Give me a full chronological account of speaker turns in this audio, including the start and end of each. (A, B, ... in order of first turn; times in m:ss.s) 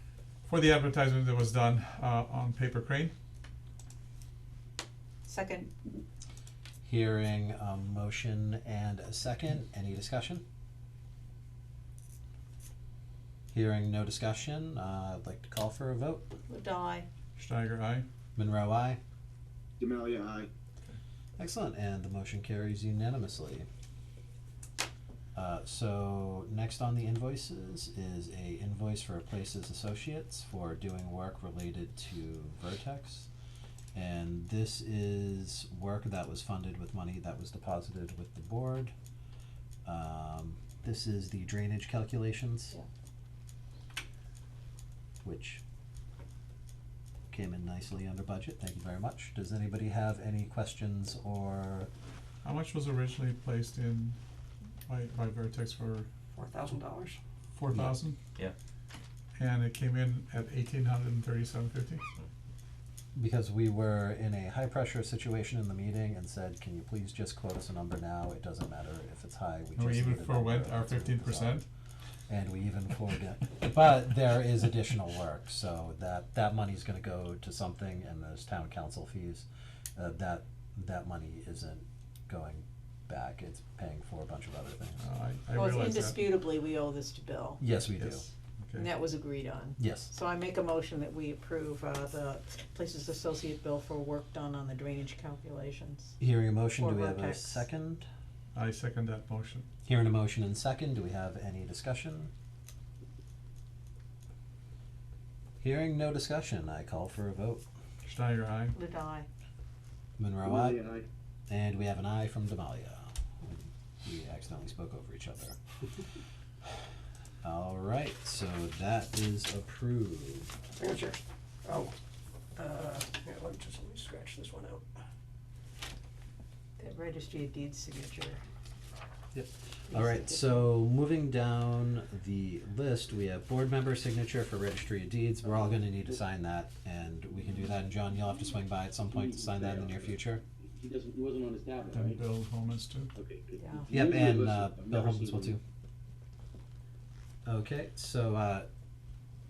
0:00.4-0:03.1 A
0:05.2-0:05.7 B
0:06.8-0:10.4 C
0:13.5-0:16.4 C
0:16.5-0:17.1 B
0:17.4-0:18.0 A
0:18.4-0:19.0 C
0:19.8-0:20.5 D
0:21.4-0:23.7 C
0:25.3-0:33.3 C
0:33.9-0:38.9 C
0:39.8-0:42.7 C
0:45.2-0:45.6 C
0:47.3-0:51.9 C
0:52.4-0:54.2 A
0:54.8-0:56.1 A
0:56.3-0:57.2 E
0:57.5-0:58.2 A
0:57.7-0:58.0 C
0:59.4-1:02.0 A
1:03.1-1:11.6 C
1:09.8-1:11.6 A
1:12.3-1:25.0 C
1:25.0-1:26.2 A
1:25.5-1:27.6 B
1:27.6-1:28.3 C
1:28.0-1:28.9 A
1:28.8-1:36.1 B
1:29.8-1:30.1 C
1:36.2-1:38.0 C
1:36.8-1:37.6 B
1:38.5-1:39.7 A
1:39.8-1:42.3 C
1:45.6-1:47.6 C
1:48.0-1:48.8 A
1:48.7-1:49.3 B
1:50.2-1:50.8 C
1:50.4-1:51.0 D
1:51.5-1:55.6 C
1:57.4-2:00.5 C
2:00.7-2:01.9 E
2:02.6-2:04.8 E
2:06.8-2:08.4 B
2:09.3-2:20.4 C
2:09.9-2:10.6 B
2:19.1-2:22.2 D
2:21.9-2:23.1 A
2:23.1-2:25.6 D
2:23.6-2:23.9 B
2:23.9-2:25.6 C
2:27.4-2:28.7 C